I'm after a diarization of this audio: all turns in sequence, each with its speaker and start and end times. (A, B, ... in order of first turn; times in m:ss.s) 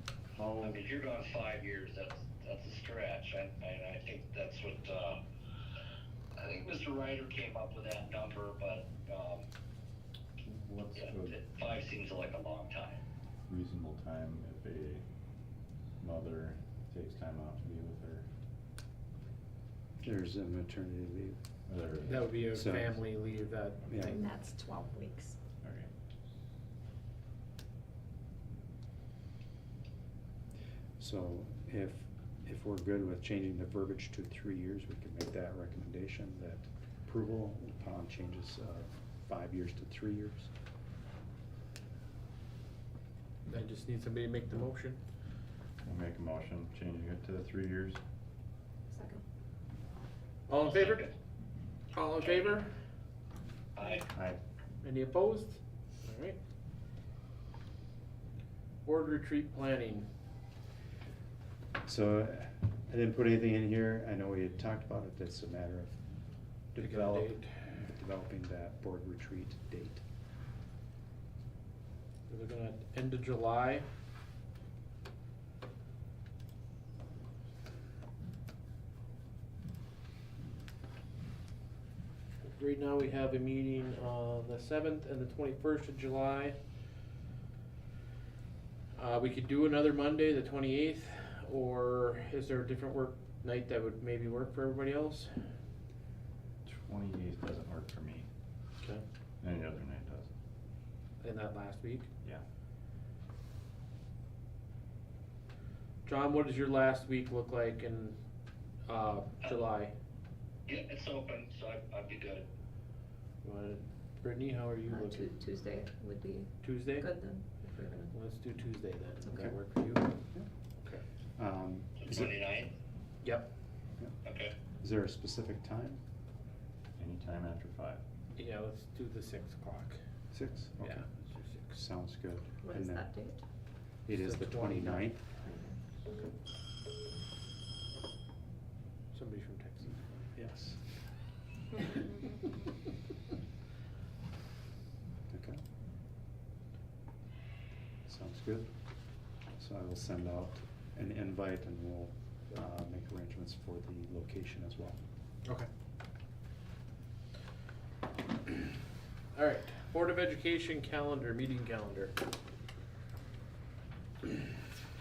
0:00.3-0:00.8 A
0:00.6-0:05.2 B
0:06.4-0:09.4 B
0:10.4-0:11.4 A
0:10.9-0:13.0 B
0:13.5-0:15.0 A
0:16.0-0:18.2 A
0:20.0-0:21.4 C
0:21.7-0:22.5 A
0:22.0-0:24.2 D
0:22.5-0:23.0 C
0:23.9-0:24.2 C
0:23.9-0:25.4 E
0:25.6-0:25.9 A
0:31.0-0:40.5 C
0:43.5-0:45.0 D
0:45.8-0:48.0 A
0:48.9-0:49.2 E
0:50.5-0:51.1 D
0:50.5-0:51.1 B
0:51.9-0:52.7 D
0:52.2-0:52.4 B
0:53.8-0:54.0 B
0:54.1-0:54.4 A
0:54.8-0:56.4 D
0:58.8-1:00.1 D
1:01.8-1:06.0 C
1:06.7-1:10.0 C
1:06.8-1:07.7 D
1:12.3-1:13.8 D
1:22.4-1:26.6 D
1:28.9-1:35.4 D
1:36.6-1:38.3 A
1:39.4-1:40.3 A
1:41.2-1:42.1 D
1:46.0-1:48.2 D
1:48.8-1:49.9 D
1:50.7-1:52.4 B
1:53.4-1:55.3 D
1:54.9-1:58.1 E
1:56.6-1:57.1 D
1:58.1-2:00.1 D
1:59.2-1:59.5 E
2:01.4-2:02.3 C
2:02.0-2:02.7 B
2:03.2-2:03.5 D
2:04.2-2:04.5 B
2:04.8-2:06.0 C
2:07.0-2:08.0 A
2:08.3-2:10.0 D
2:10.3-2:11.0 C
2:10.8-2:11.8 D
2:11.7-2:13.1 C
2:12.6-2:13.4 E
2:14.1-2:15.1 D
2:14.1-2:15.2 C
2:15.4-2:15.8 E
2:19.1-2:20.2 D
2:20.3-2:20.8 C
2:25.3-2:25.6 C
2:28.0-2:28.7 C
2:29.6-2:35.0 C
2:39.3-2:42.1 D